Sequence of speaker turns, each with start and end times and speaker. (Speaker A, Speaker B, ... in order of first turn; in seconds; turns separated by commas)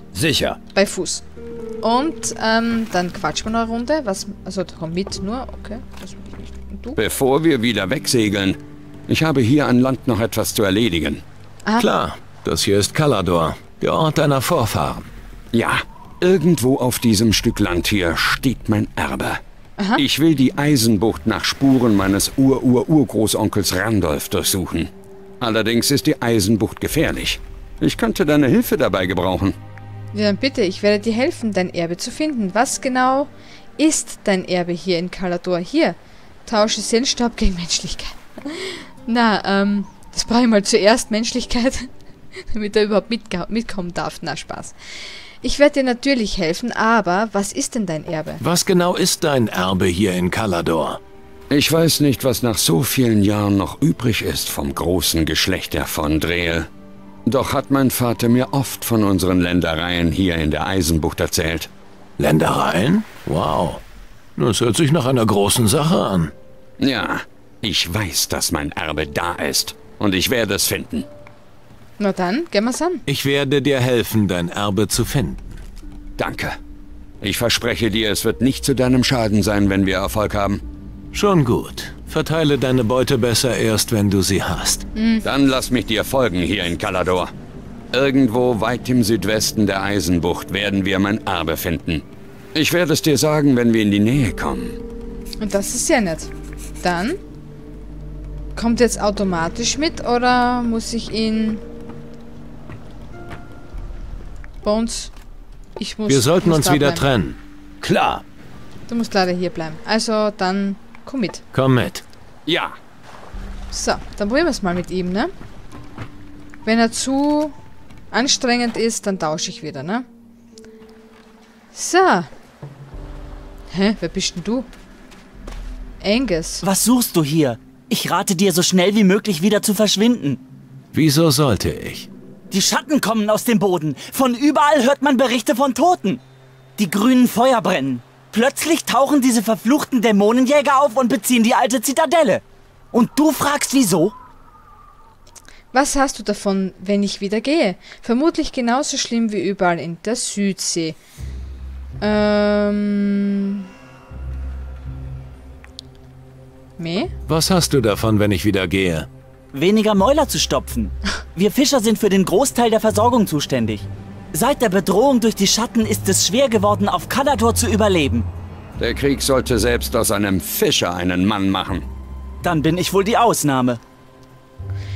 Speaker A: 0.1-0.6, Speaker B: 0.7-1.2, Speaker B: 1.8-7.0, Speaker A: 7.0-11.2, Speaker C: 11.8-15.1, Speaker A: 15.5-19.4, Speaker A: 19.9-29.6, Speaker B: 30.1-44.8, Speaker B: 45.4-48.4, Speaker C: 48.4-51.0, Speaker A: 51.5-56.7, Speaker A: 57.2-61.7, Speaker C: 62.2-63.8, Speaker C: 64.3-66.3, Speaker A: 66.8-71.1, Speaker B: 72.0-73.0, Speaker C: 73.1-75.6, Speaker A: 76.2-76.6, Speaker A: 77.2-80.6, Speaker C: 81.1-84.9, Speaker B: 84.9-85.2, Speaker A: 85.2-87.3, Speaker A: 87.9-94.8, Speaker B: 95.4-96.3, Speaker B: 96.8-97.2, Speaker B: 98.5-101.6, Speaker B: 104.6-105.1, Speaker B: 105.8-107.1, Speaker C: 106.1-107.4, Speaker A: 107.8-108.2, Speaker B: 108.9-111.4, Speaker C: 111.5-112.0, Speaker A: 112.5-112.7, Speaker B: 113.7-115.3, Speaker B: 116.6-117.5, Speaker B: 118.1-120.1, Speaker B: 121.7-122.3, Speaker B: 123.7-124.7, Speaker B: 126.0-126.6, Speaker D: 126.6-130.4, Speaker C: 130.9-132.1, Speaker D: 132.5-136.2, Speaker D: 136.8-144.1, Speaker B: 145.7-150.9, Speaker B: 152.0-153.6, Speaker B: 156.8-157.1, Speaker C: 157.3-159.1, Speaker D: 159.5-168.3, Speaker A: 168.8-171.8, Speaker D: 172.4-173.8